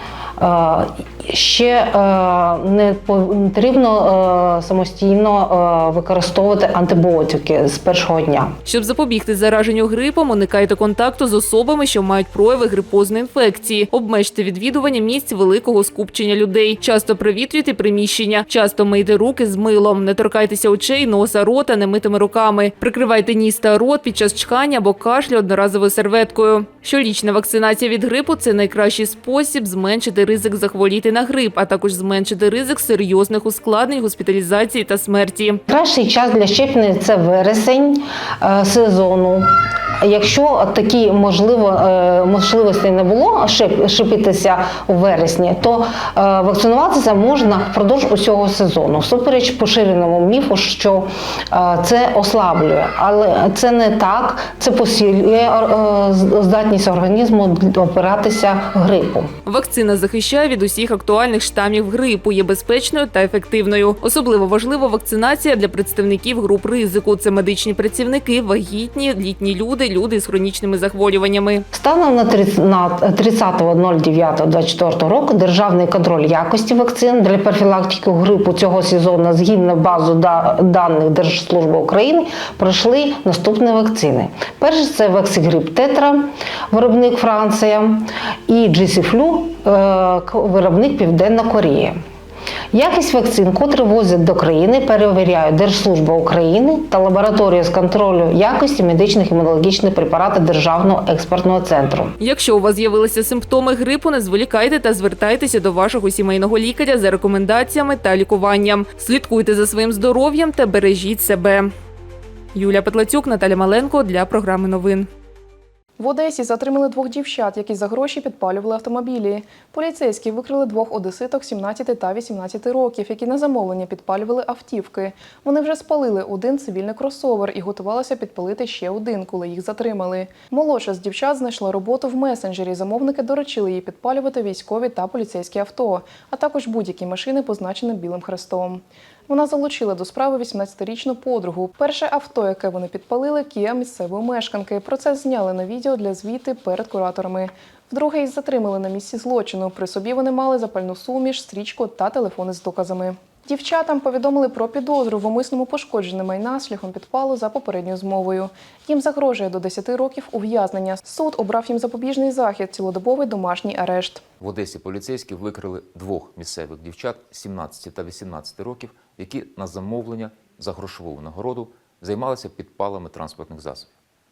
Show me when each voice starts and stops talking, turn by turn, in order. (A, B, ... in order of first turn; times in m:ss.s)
0:00.4-0:08.5 A
0:08.7-0:35.6 B
0:35.7-0:39.5 A
0:40.0-0:59.3 A
0:59.5-1:11.6 B
1:11.7-1:32.0 A
1:32.7-1:42.1 A
1:42.2-1:51.7 B
1:52.5-1:55.1 B
1:56.0-2:44.2 C
2:44.4-2:53.9 D